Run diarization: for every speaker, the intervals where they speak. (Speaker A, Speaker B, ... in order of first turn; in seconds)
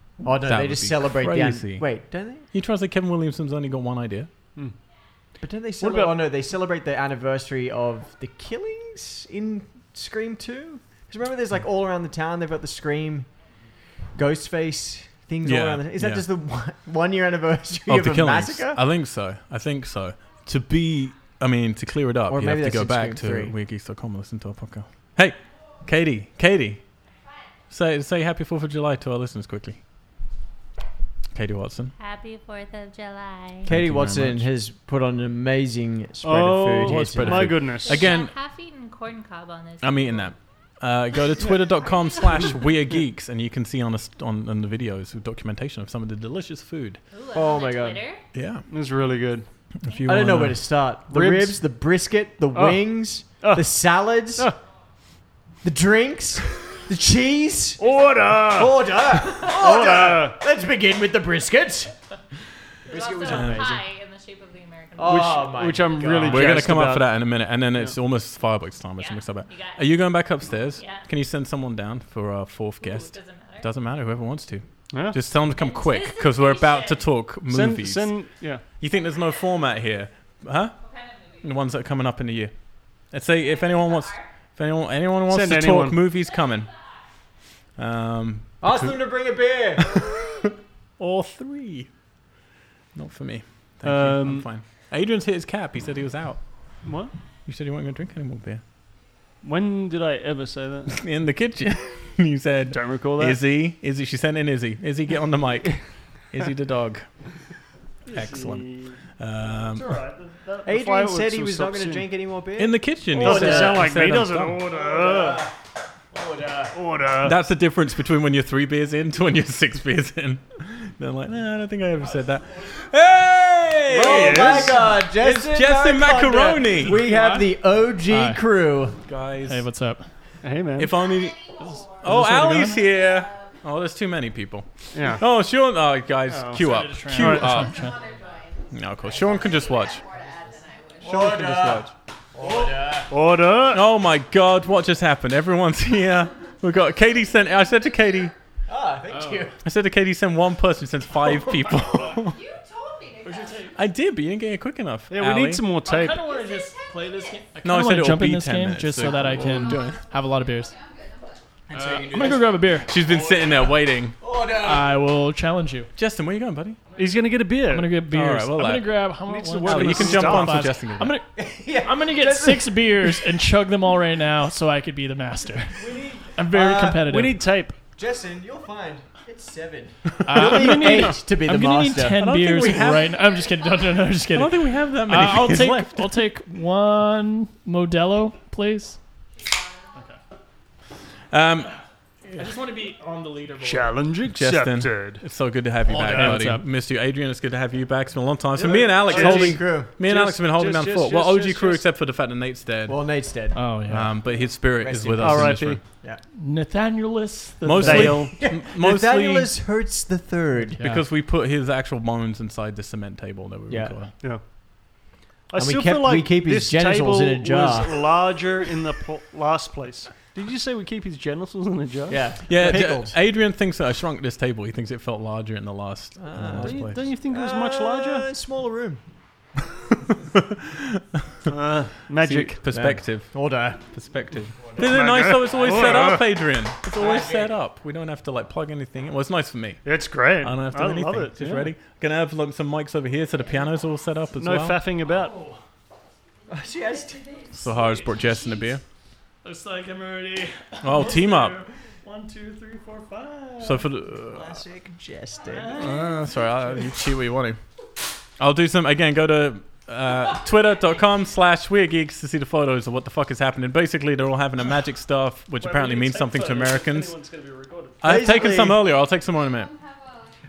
Speaker A: 0.2-2.5, 5.4-13.3, 14.2-18.8, 22.3-23.6, 33.7-37.6, 47.3-48.0, 50.1-54.5, 55.6-62.0, 62.9-63.8, 65.0-66.6, 88.6-89.9, 110.7-113.9, 114.7-115.5, 116.1-116.8, 123.9-129.0, 141.0-143.1, 148.7-149.6, 161.7-162.5, 163.1-163.4, 164.2-164.9, 171.4-173.0, 175.8-177.1, 178.0-182.3, 198.6-199.9, 202.9-203.6, 204.8-206.2, 208.2-210.8, 213.7-213.9, 215.6-218.1, 222.1-223.2, 226.2-229.0, 232.7-233.8, 236.9-237.5, 246.5-247.3, 254.1-256.0, 268.0-268.8
Speaker B: 0.4-1.9, 2.5-4.3, 15.4-16.3, 17.9-26.8, 27.7-29.8, 31.3-31.9, 33.7-34.5, 36.8-38.3, 39.8-47.0, 48.3-48.6, 49.8-50.7, 63.3-63.7, 66.3-80.8, 81.4-86.7, 87.8-89.0, 89.8-91.9, 93.0-96.8, 97.5-98.6, 100.9-107.1, 108.1-110.0, 112.6-114.7, 117.2-127.0, 129.1-129.7, 130.8-137.8, 138.7-140.1, 141.1-141.9, 143.7-148.3, 149.6-152.4, 153.8-155.7, 157.6-160.0, 162.8-164.2, 166.0-166.8, 168.1-169.1, 169.7-171.2, 180.2-181.2, 182.2-183.2, 184.3-186.2, 191.3-191.7, 194.3-203.0, 203.9-205.8, 207.6-209.5, 210.8-214.1, 222.5-227.0, 230.1-231.5, 232.2-244.8, 247.5-248.8, 250.8-251.6, 253.6-254.6, 255.8-257.6, 258.4-267.2, 268.0-269.7
Speaker C: 5.8-6.2, 36.2-38.1, 48.7-49.5, 51.1-51.6, 52.5-53.8, 57.8-60.4, 65.1-68.0, 74.9-75.2, 77.5-78.6, 85.3-86.0, 93.8-94.5, 96.8-97.1, 99.4-101.0, 102.7-103.4, 108.1-112.1, 113.2-115.5, 116.7-117.4, 123.9-125.0, 130.4-131.0, 134.9-135.2, 136.3-137.6, 142.4-143.9, 155.1-156.2, 167.0-168.0, 169.2-170.8, 177.0-177.8, 193.6-195.2, 196.1-196.4, 198.6-201.8, 205.2-205.8, 207.8-208.3, 215.5-222.2, 226.6-228.3, 231.5-232.6, 234.8-236.3, 239.8-241.7, 244.4-245.3, 265.6-268.8
Speaker D: 32.0-33.7, 37.8-40.3, 41.9-42.6, 47.1-48.2, 62.9-65.8, 69.0-71.1, 72.8-73.7, 75.5-77.2, 80.8-81.5, 83.4-84.3, 130.9-133.6, 137.4-141.5, 152.0-153.8, 156.2-157.4, 159.7-161.4, 182.6-184.2, 189.4-190.0, 246.6-248.4, 269.0-270.3
Speaker E: 126.9-128.4, 129.5-130.1, 132.0-132.8, 136.6-138.0, 149.1-149.5, 153.2-153.7, 155.8-160.8, 161.7-163.0, 164.5-165.9, 167.7-177.6, 180.3-189.0, 192.3-193.9, 195.9-196.7, 203.6-204.1, 206.4-208.3, 245.1-245.6, 247.9-248.7, 249.4-253.8, 255.4-256.5